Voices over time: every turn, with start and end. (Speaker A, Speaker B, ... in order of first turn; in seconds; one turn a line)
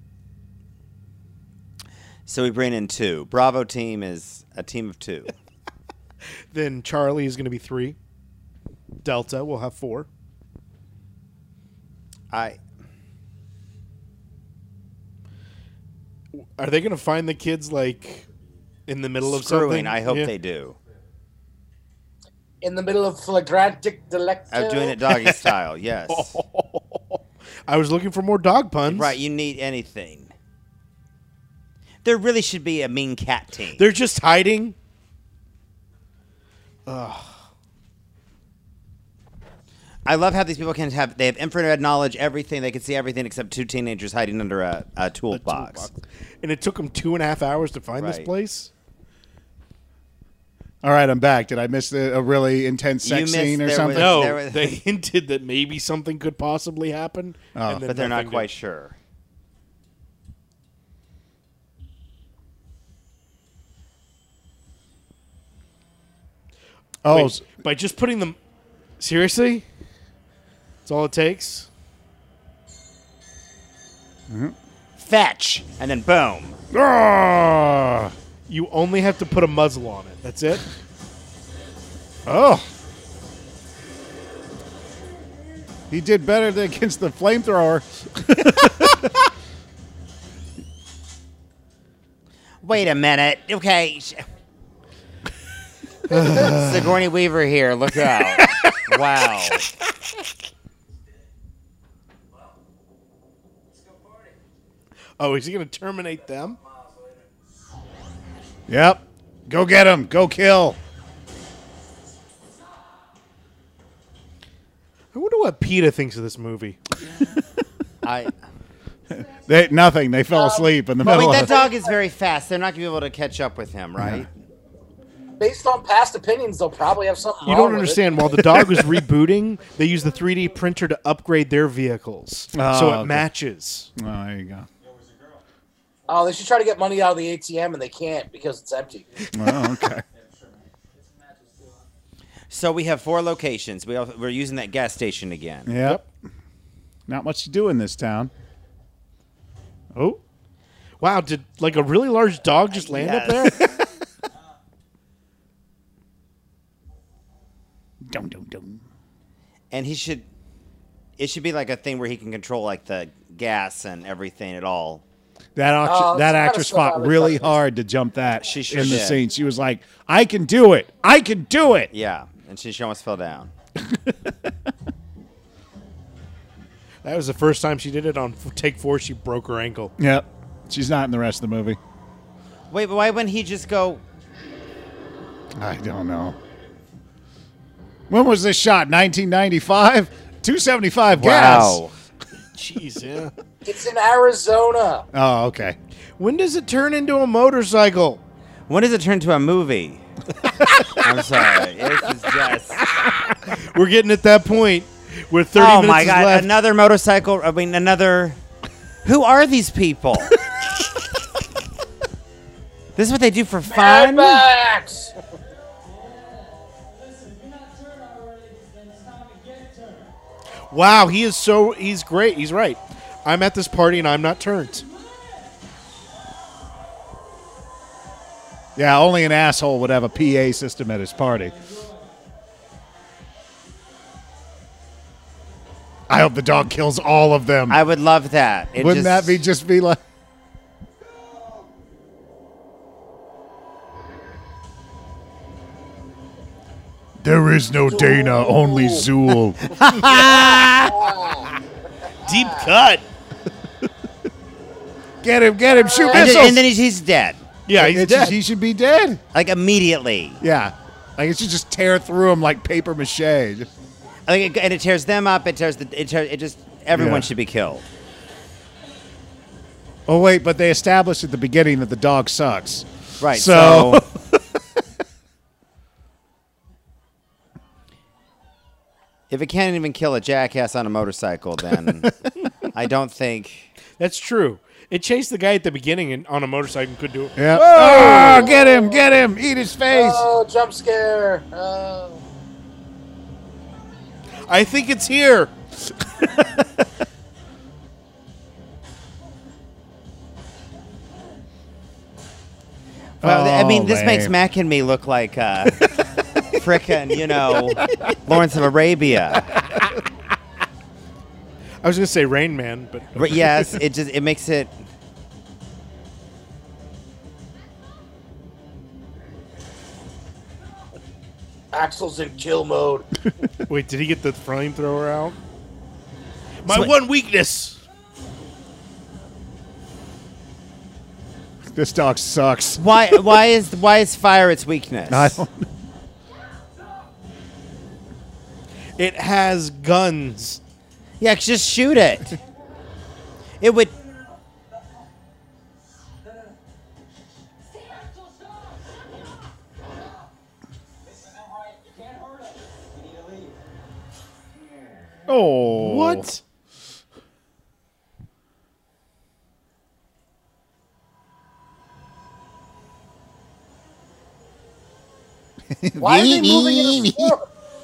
Speaker A: 2.3-5.3
Speaker B: 6.5-8.0
Speaker B: 9.0-10.1
Speaker A: 12.3-12.6
Speaker B: 16.4-18.3
Speaker B: 18.9-20.3
Speaker A: 19.2-20.8
Speaker C: 22.6-25.0
Speaker A: 24.5-26.4
Speaker B: 25.1-25.5
Speaker B: 26.1-29.2
Speaker A: 28.9-30.3
Speaker A: 32.0-33.9
Speaker B: 33.8-34.8
Speaker B: 36.9-37.4
Speaker A: 40.0-45.9
Speaker B: 45.3-48.7
Speaker A: 48.0-48.3
Speaker D: 50.8-54.2
Speaker A: 53.0-54.8
Speaker B: 53.9-58.5
Speaker D: 57.5-57.9
Speaker A: 57.8-59.0
Speaker D: 67.0-67.4
Speaker B: 67.1-68.4
Speaker B: 69.0-69.7
Speaker B: 70.8-71.7
Speaker D: 74.3-74.5
Speaker A: 75.0-76.6
Speaker D: 76.7-78.1
Speaker B: 78.5-80.7
Speaker D: 82.3-82.7
Speaker D: 85.9-89.2
Speaker A: 92.6-94.3
Speaker B: 96.1-97.0
Speaker A: 96.2-99.7
Speaker B: 98.5-98.8
Speaker E: 103.7-104.3
Speaker B: 105.2-106.6
Speaker E: 106.6-107.2
Speaker D: 108.7-110.8
Speaker B: 115.1-116.8
Speaker A: 118.0-118.3
Speaker D: 119.5-121.5
Speaker C: 120.3-122.0
Speaker A: 121.0-124.3
Speaker D: 124.0-124.3
Speaker C: 125.4-128.6
Speaker B: 127.5-133.9
Speaker D: 132.5-133.3
Speaker D: 134.0-134.7
Speaker E: 134.8-135.4
Speaker C: 136.1-139.2
Speaker E: 139.2-141.8
Speaker D: 139.3-140.0
Speaker A: 142.5-145.7
Speaker D: 145.7-146.0
Speaker D: 147.1-148.3
Speaker D: 149.9-150.2
Speaker B: 151.0-153.7
Speaker A: 152.7-153.7
Speaker D: 158.1-158.8
Speaker A: 159.7-160.3
Speaker A: 161.2-165.0
Speaker D: 165.6-171.9
Speaker C: 165.8-167.6
Speaker A: 168.4-169.2
Speaker A: 171.9-173.5
Speaker D: 173.8-174.3
Speaker B: 177.0-179.9
Speaker D: 180.0-181.8
Speaker A: 182.7-184.0
Speaker D: 185.6-186.4
Speaker D: 188.1-191.8
Speaker A: 191.2-191.9
Speaker B: 192.6-193.3
Speaker C: 193.7-195.1
Speaker D: 195.1-195.8
Speaker B: 196.2-198.2
Speaker A: 198.7-200.1
Speaker A: 201.0-202.9
Speaker B: 203.6-206.5
Speaker A: 205.5-208.4
Speaker A: 209.0-210.4
Speaker A: 213.0-214.5
Speaker C: 213.7-215.2
Speaker B: 220.7-224.9
Speaker D: 228.8-231.6
Speaker D: 236.1-237.8
Speaker A: 237.7-239.4
Speaker D: 238.8-240.0
Speaker D: 247.2-249.8
Speaker C: 247.9-249.1
Speaker A: 249.6-251.2
Speaker C: 250.1-251.5
Speaker B: 252.2-253.0
Speaker D: 255.2-256.7
Speaker C: 255.7-256.4
Speaker A: 256.1-257.5
Speaker B: 257.7-258.4
Speaker D: 257.8-259.2
Speaker A: 259.3-260.4
Speaker D: 260.4-263.7
Speaker A: 264.3-267.9
Speaker D: 266.9-267.3
Speaker D: 270.1-274.2
Speaker A: 273.2-274.1
Speaker A: 279.3-282.1
Speaker A: 282.6-283.7
Speaker B: 284.0-288.5
Speaker D: 287.4-290.2
Speaker C: 287.9-289.1
Speaker C: 289.9-292.2
Speaker B: 294.4-295.5
Speaker D: 303.2-304.3
Speaker A: 303.2-305.9
Speaker A: 306.5-309.6
Speaker B: 311.8-313.7
Speaker A: 313.2-314.9
Speaker C: 321.7-323.1
Speaker B: 323.7-325.4
Speaker B: 326.6-327.8
Speaker A: 326.7-326.9
Speaker D: 331.7-333.2
Speaker A: 332.8-335.4
Speaker D: 335.1-335.7
Speaker B: 339.0-340.6
Speaker A: 341.2-342.4
Speaker A: 343.6-343.9
Speaker E: 351.2-353.5
Speaker D: 355.3-356.3
Speaker B: 355.7-356.4
Speaker D: 365.7-367.3
Speaker C: 366.0-367.5